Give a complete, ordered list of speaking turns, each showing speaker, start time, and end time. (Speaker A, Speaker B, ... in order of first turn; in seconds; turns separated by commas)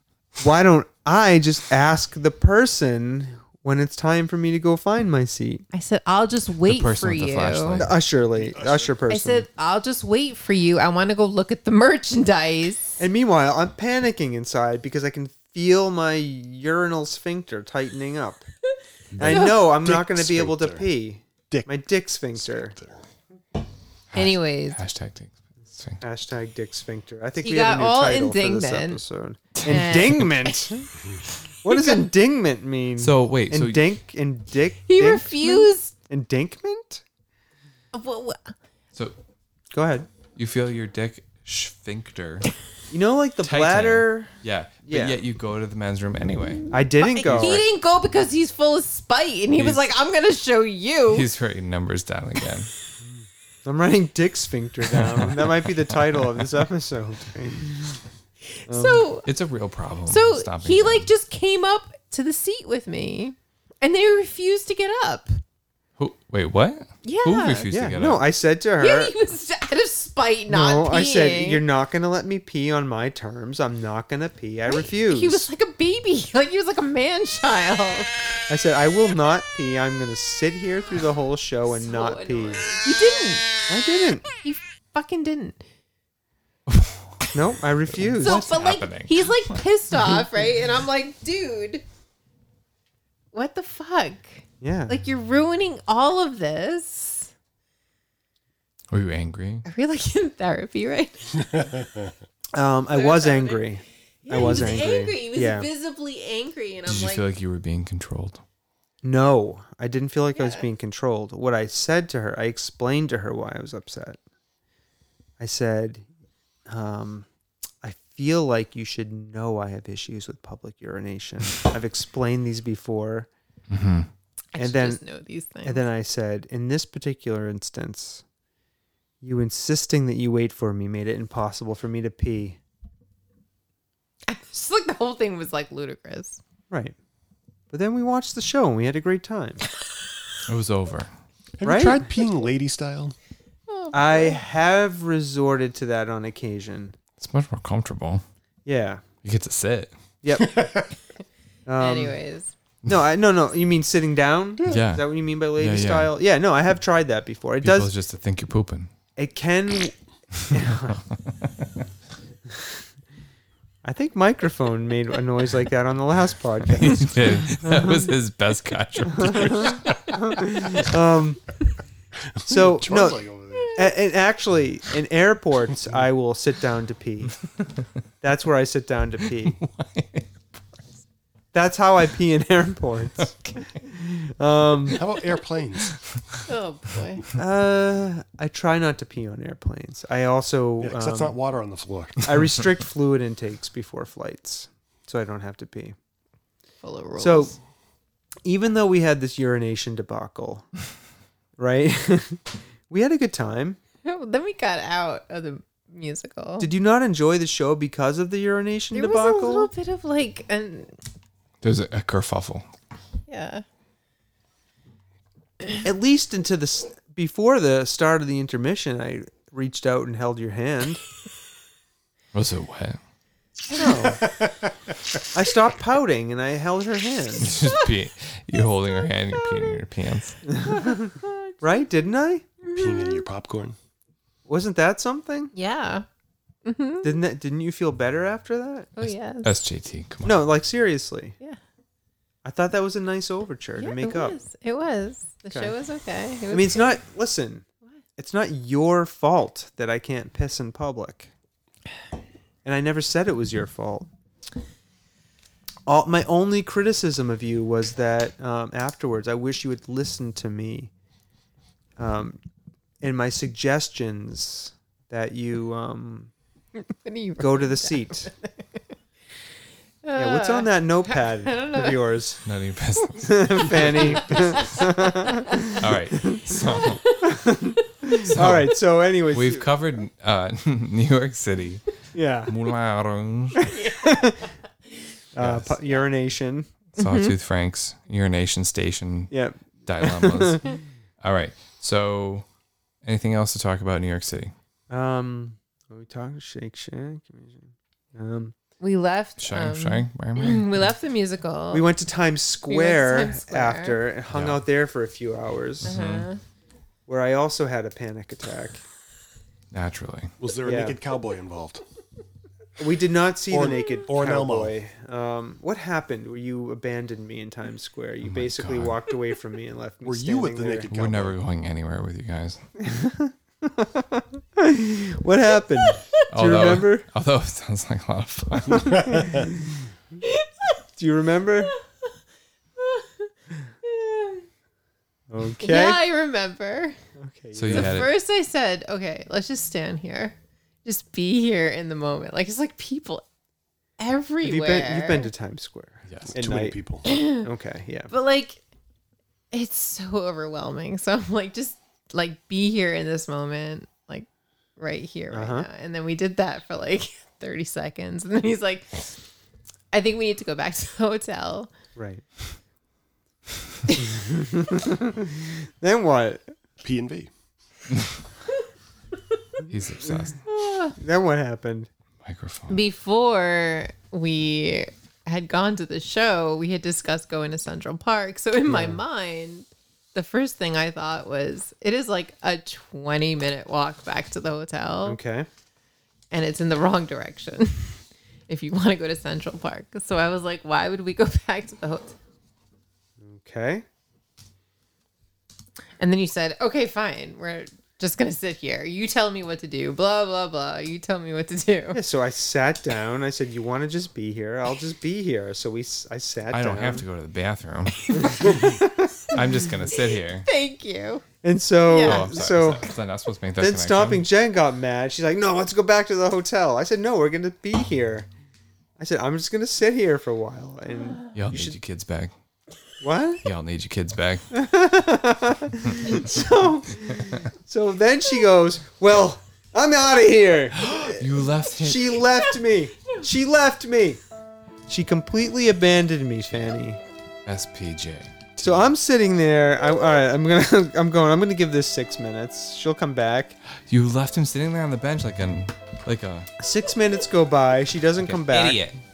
Speaker A: 0.4-5.7, Speaker B: 5.7-7.8, Speaker C: 6.7-8.0, Speaker A: 7.8-9.5, Speaker D: 8.3-8.9, Speaker B: 9.1-13.0, Speaker A: 13.0-18.5, Speaker A: 19.2-22.8, Speaker D: 19.2-20.9, Speaker B: 19.2-19.6, Speaker D: 22.4-23.0, Speaker C: 24.1-26.0, Speaker B: 24.1-24.8, Speaker A: 26.0-30.9, Speaker B: 27.4-29.0, Speaker C: 29.6-30.1, Speaker B: 29.6-30.5, Speaker A: 31.6-37.0, Speaker C: 33.0-33.8, Speaker B: 34.9-35.9, Speaker B: 37.9-38.5, Speaker A: 39.7-40.1, Speaker C: 40.4-42.5, Speaker A: 42.9-44.3, Speaker C: 43.4-46.6, Speaker A: 44.9-45.2, Speaker A: 46.7-47.6, Speaker B: 47.0-51.3, Speaker C: 47.2-47.6, Speaker C: 49.6-49.9, Speaker C: 51.1-52.7, Speaker A: 53.6-58.0, Speaker C: 54.9-56.5, Speaker B: 58.5-59.3, Speaker A: 58.7-59.0, Speaker C: 59.3-61.1, Speaker B: 60.1-65.4, Speaker C: 66.0-68.2, Speaker B: 67.0-67.7, Speaker A: 67.7-69.1, Speaker B: 68.8-71.6, Speaker A: 70.5-75.5, Speaker B: 74.7-78.2, Speaker A: 78.5-82.7, Speaker B: 81.7-83.5, Speaker A: 83.7-84.3, Speaker B: 84.4-85.6, Speaker C: 86.7-87.0, Speaker A: 87.3-88.5, Speaker C: 88.1-89.3, Speaker B: 88.2-91.8, Speaker B: 93.3-97.3, Speaker A: 94.6-95.0, Speaker C: 98.9-99.7, Speaker B: 99.7-101.7, Speaker A: 102.5-105.7, Speaker B: 102.9-103.7, Speaker B: 104.2-107.2, Speaker C: 106.9-108.4, Speaker A: 109.0-114.2, Speaker B: 110.3-110.7, Speaker A: 115.4-116.0, Speaker A: 116.7-117.3, Speaker A: 117.8-123.3, Speaker C: 123.7-124.1, Speaker B: 124.5-125.8, Speaker A: 124.6-125.0, Speaker A: 125.6-128.2, Speaker A: 129.2-132.6, Speaker B: 134.3-136.4, Speaker A: 136.7-136.9, Speaker A: 137.7-139.6, Speaker C: 140.5-141.1, Speaker D: 141.6-143.2, Speaker A: 141.6-142.1, Speaker B: 143.7-144.4, Speaker A: 143.9-147.0, Speaker C: 147.2-148.2, Speaker A: 148.7-149.0, Speaker C: 149.2-149.9, Speaker A: 150.2-150.6, Speaker D: 150.4-150.8, Speaker A: 151.7-152.2, Speaker B: 151.8-152.5, Speaker A: 152.9-157.9, Speaker C: 154.6-156.1, Speaker C: 157.6-158.9, Speaker A: 159.2-159.9, Speaker A: 160.5-161.0, Speaker C: 160.5-161.0, Speaker A: 163.8-168.0, Speaker C: 166.7-170.2, Speaker A: 169.2-171.4, Speaker D: 172.4-173.8, Speaker A: 172.5-177.3, Speaker B: 173.6-173.8, Speaker A: 178.2-179.6, Speaker C: 179.4-180.3, Speaker A: 181.5-185.0, Speaker C: 183.2-183.7, Speaker D: 184.9-186.0, Speaker C: 185.9-186.4, Speaker B: 186.5-187.2, Speaker A: 187.4-191.4, Speaker D: 190.8-192.5, Speaker A: 192.2-196.0, Speaker B: 196.8-197.6, Speaker A: 197.2-197.6, Speaker A: 198.4-200.7, Speaker A: 201.6-203.8, Speaker B: 204.0-206.7, Speaker A: 206.6-209.7, Speaker B: 208.9-211.0, Speaker C: 211.6-212.7, Speaker B: 213.3-213.6, Speaker A: 215.8-221.0, Speaker C: 222.3-223.0, Speaker A: 223.7-224.3, Speaker B: 223.7-224.1, Speaker A: 225.3-227.6, Speaker C: 227.4-230.4, Speaker B: 229.4-229.8, Speaker B: 230.5-231.8, Speaker A: 230.5-231.1, Speaker A: 231.6-232.5, Speaker B: 232.6-233.3, Speaker D: 232.8-233.8, Speaker A: 234.5-235.5, Speaker B: 235.5-236.1, Speaker B: 236.7-237.2, Speaker A: 237.0-238.9, Speaker B: 239.0-239.5, Speaker C: 239.0-240.4, Speaker A: 240.2-241.4, Speaker A: 242.4-244.4, Speaker B: 243.8-246.9, Speaker A: 246.5-247.7, Speaker A: 248.2-251.3, Speaker A: 252.7-254.1, Speaker A: 255.9-260.9, Speaker A: 262.0-262.4, Speaker A: 263.0-266.3, Speaker B: 266.9-268.8, Speaker A: 267.4-268.3, Speaker B: 270.0-271.9, Speaker A: 270.1-272.4, Speaker C: 272.4-274.3, Speaker A: 273.2-276.4, Speaker B: 273.9-275.7, Speaker C: 275.8-277.1, Speaker A: 277.2-279.7, Speaker C: 278.2-278.8, Speaker C: 279.3-283.7, Speaker A: 282.1-282.5, Speaker B: 283.7-284.4, Speaker A: 283.8-284.4, Speaker A: 285.4-286.7, Speaker C: 285.4-285.8, Speaker C: 287.0-289.3, Speaker B: 287.0-287.3, Speaker A: 289.3-290.8, Speaker C: 289.9-292.4, Speaker C: 293.0-294.5, Speaker A: 294.9-298.6, Speaker B: 298.8-301.9, Speaker C: 299.4-300.8, Speaker A: 301.7-305.9, Speaker B: 302.7-304.0, Speaker C: 304.3-304.6, Speaker C: 305.8-306.3, Speaker B: 305.9-306.4, Speaker A: 307.1-308.8, Speaker C: 309.7-310.3, Speaker D: 310.4-311.8, Speaker A: 310.6-311.0, Speaker A: 312.8-320.9, Speaker D: 313.5-314.7, Speaker C: 318.2-319.0, Speaker D: 320.0-321.4, Speaker C: 320.9-322.6, Speaker A: 322.8-327.1, Speaker C: 326.3-329.4, Speaker A: 328.7-329.8, Speaker B: 330.2-330.7, Speaker A: 331.0-331.7, Speaker B: 332.8-333.3, Speaker B: 333.8-334.5, Speaker A: 335.3-336.0, Speaker B: 335.6-337.0, Speaker A: 337.2-338.1, Speaker C: 337.6-338.1, Speaker B: 337.7-343.2, Speaker B: 344.0-345.3, Speaker A: 344.4-348.1, Speaker C: 346.1-346.3, Speaker D: 346.3-347.1, Speaker B: 347.1-347.5, Speaker B: 348.1-348.6, Speaker B: 349.5-359.2, Speaker A: 355.3-355.7, Speaker B: 359.9-361.7, Speaker A: 362.0-362.2, Speaker A: 364.0-366.5, Speaker D: 366.8-367.3, Speaker C: 369.7-370.4, Speaker A: 370.1-370.3, Speaker B: 370.5-371.0, Speaker A: 371.0-371.9, Speaker C: 372.2-372.8, Speaker B: 372.7-385.2, Speaker A: 378.7-379.0, Speaker A: 385.1-385.5, Speaker B: 386.3-392.2, Speaker A: 393.2-393.9, Speaker B: 396.0-402.0, Speaker A: 401.9-407.1, Speaker C: 406.5-408.5, Speaker B: 408.1-408.7, Speaker A: 408.1-409.4, Speaker C: 409.3-410.5, Speaker B: 410.4-411.2, Speaker A: 411.4-412.9, Speaker B: 411.9-412.3, Speaker C: 412.0-414.3, Speaker A: 413.6-418.3, Speaker A: 419.0-421.8, Speaker C: 421.3-422.3, Speaker A: 423.0-423.4, Speaker C: 423.4-424.5, Speaker A: 424.5-431.3, Speaker C: 425.9-426.2, Speaker C: 430.8-432.2, Speaker A: 431.8-434.2, Speaker A: 434.9-437.0, Speaker C: 437.5-438.9, Speaker A: 438.6-443.6, Speaker C: 443.9-446.5, Speaker A: 446.6-448.8, Speaker C: 448.2-449.0